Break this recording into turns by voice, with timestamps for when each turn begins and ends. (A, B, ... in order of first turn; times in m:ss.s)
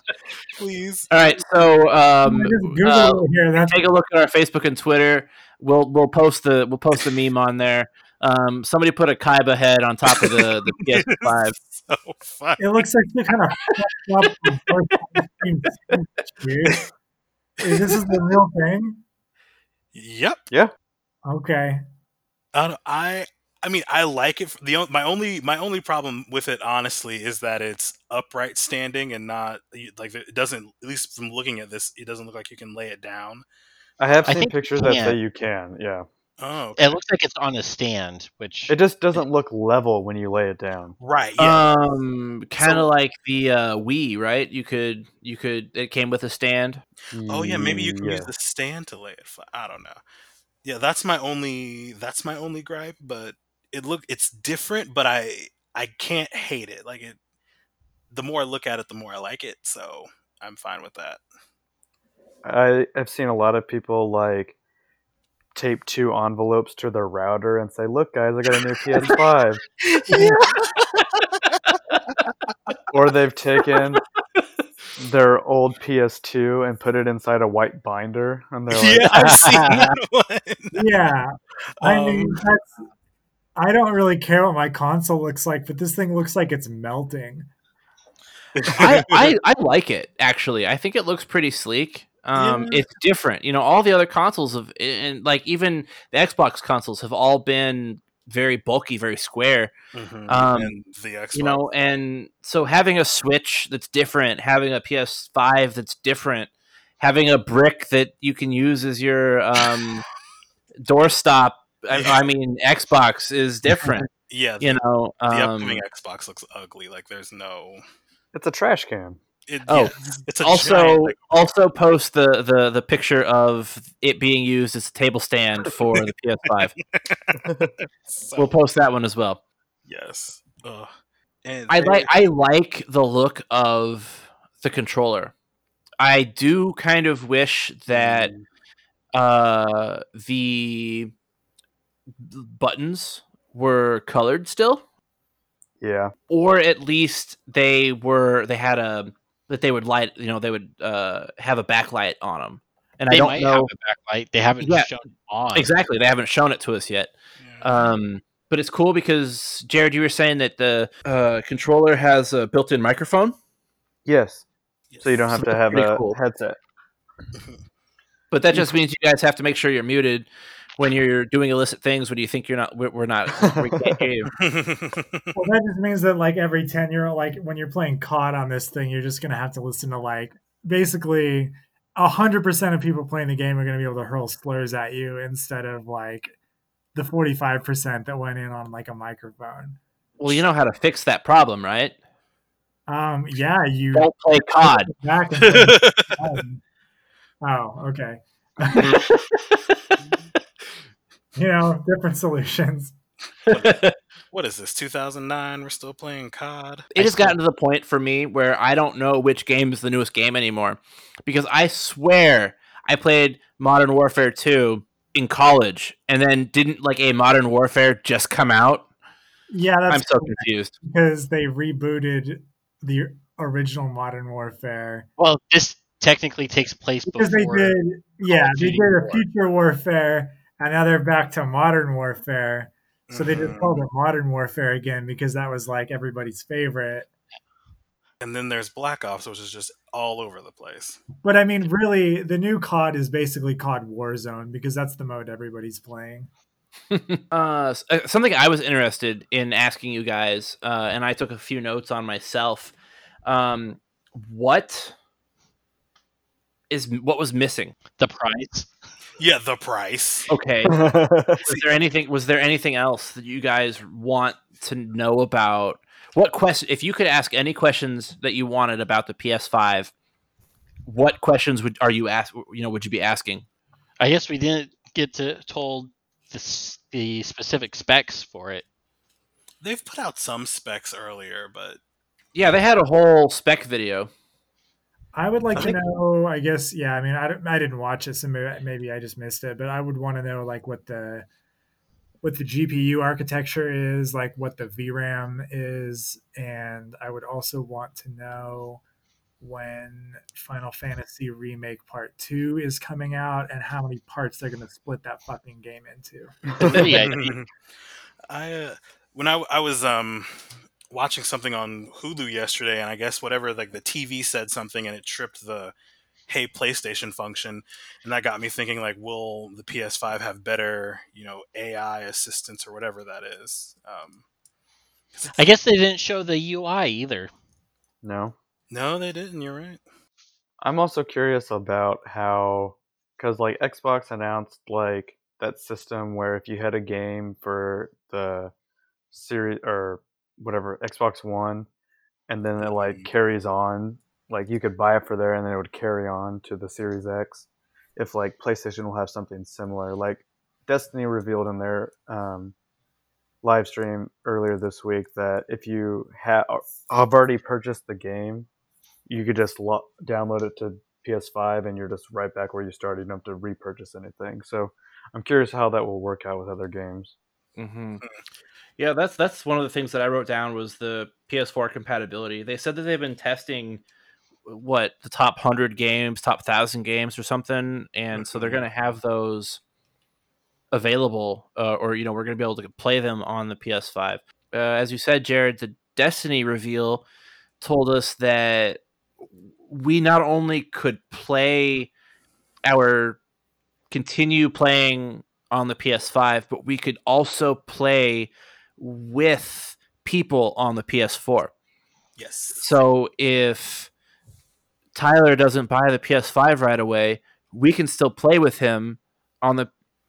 0:00.6-0:01.7 A
0:01.1-0:11.6 B
0:02.2-0:03.9 C
0:10.1-0:12.8 A
0:12.6-0:16.9 C
0:17.6-0:19.0 C
0:19.9-0:20.4 A
0:21.2-0:21.8 C
0:22.5-0:33.4 A
0:34.0-0:36.1 D
0:34.2-0:34.4 A
0:34.3-0:35.2 E
0:36.4-0:37.0 A
0:36.8-0:38.8 E
0:38.7-0:41.0 D
0:41.0-0:41.7 A
0:41.4-0:46.8 B
0:42.6-0:42.9 A
0:47.1-0:48.3 D
0:47.3-0:50.0 A
0:50.6-0:57.2 A
0:58.1-1:01.2 A
1:02.4-1:04.6 D
1:05.6-1:09.6 D
1:10.1-1:10.4 C
1:10.3-1:10.9 A
1:12.9-1:14.0 D
1:15.0-1:19.1 D
1:18.7-1:20.9 A
1:19.1-1:19.9 E
1:20.7-1:22.8 C
1:21.7-1:22.4 A
1:23.6-1:27.5 C
1:28.6-1:29.3 A
1:28.7-1:39.7 B
1:32.4-1:32.8 A
1:39.9-1:42.0 A
1:40.3-1:40.8 B
1:41.3-1:50.0 B
1:50.8-1:54.1 B
1:51.9-1:52.3 A
1:54.3-1:57.8 A
1:54.6-1:55.8 B
1:58.3-1:59.2 D
1:59.5-2:01.5 A
1:59.7-2:06.7 B
2:06.9-2:07.4 A
2:07.4-2:07.7 D
2:08.0-2:08.6 A
2:08.4-2:09.4 B
2:09.9-2:10.9 A
2:11.4-2:12.1 A
2:11.7-2:15.3 B
2:16.0-2:18.3 B
2:17.9-2:18.4 D
2:19.1-2:21.1 B
2:22.2-2:24.8 B
2:25.8-2:26.1 D
2:26.3-2:33.7 B
2:33.1-2:35.7 E
2:34.6-2:34.9 B
2:35.5-2:43.4 B
2:37.4-2:37.7 A
2:44.0-2:44.4 D
2:44.9-2:45.4 A
2:45.0-2:46.6 D
2:45.4-2:46.2 B
2:48.3-2:54.3 B
2:53.4-2:54.0 D
2:54.4-2:55.3 A
2:55.4-3:06.3 C
3:07.0-3:09.8 C
3:10.2-3:11.9 B
3:12.9-3:16.6 C
3:13.9-3:14.9 B
3:15.4-3:16.2 A
3:17.4-3:19.0 C
3:18.8-3:20.0 B
3:21.4-3:22.9 C
3:23.5-3:24.0 B
3:24.3-3:26.9 A
3:26.9-3:38.9 B
3:27.0-3:27.4 E
3:39.5-3:45.1 C
3:39.9-3:40.7 B
3:45.2-3:49.2 E
3:47.1-3:57.1 C
3:53.1-3:53.9 A
3:58.2-4:01.0 A
4:01.2-4:06.3 C
4:06.9-4:14.9 B
4:16.7-4:17.8 B
4:18.0-4:18.7 E
4:19.2-4:20.3 A
4:20.3-4:20.8 B
4:20.6-4:21.5 D
4:21.4-4:29.9 B
4:30.9-4:33.4 B
4:34.0-4:38.6 E
4:39.6-4:41.8 A
4:42.4-4:44.1 B
4:45.1-4:51.3 C
4:52.2-4:58.8 C
4:59.4-5:06.9 C
5:06.6-5:07.3 E
5:06.6-5:07.5 A
5:08.3-5:15.7 A
5:16.3-5:24.2 A
5:25.2-5:25.5 A
5:25.4-5:27.3 E
5:28.0-5:28.4 D
5:28.7-5:29.8 A
5:30.6-5:38.5 D
5:39.1-5:41.7 D
5:42.3-5:52.6 D
5:42.6-5:43.1 A
5:53.4-5:58.5 D
5:59.1-6:07.2 D
6:07.6-6:08.0 B
6:08.8-6:13.8 B
6:14.5-6:19.6 B
6:18.1-6:18.6 A
6:20.7-6:27.0 B
6:27.6-6:28.8 B
6:29.6-6:31.9 B
6:32.7-6:33.2 B
6:33.9-6:41.5 B
6:42.2-6:42.7 A
6:42.6-6:43.9 B
6:45.0-6:49.7 B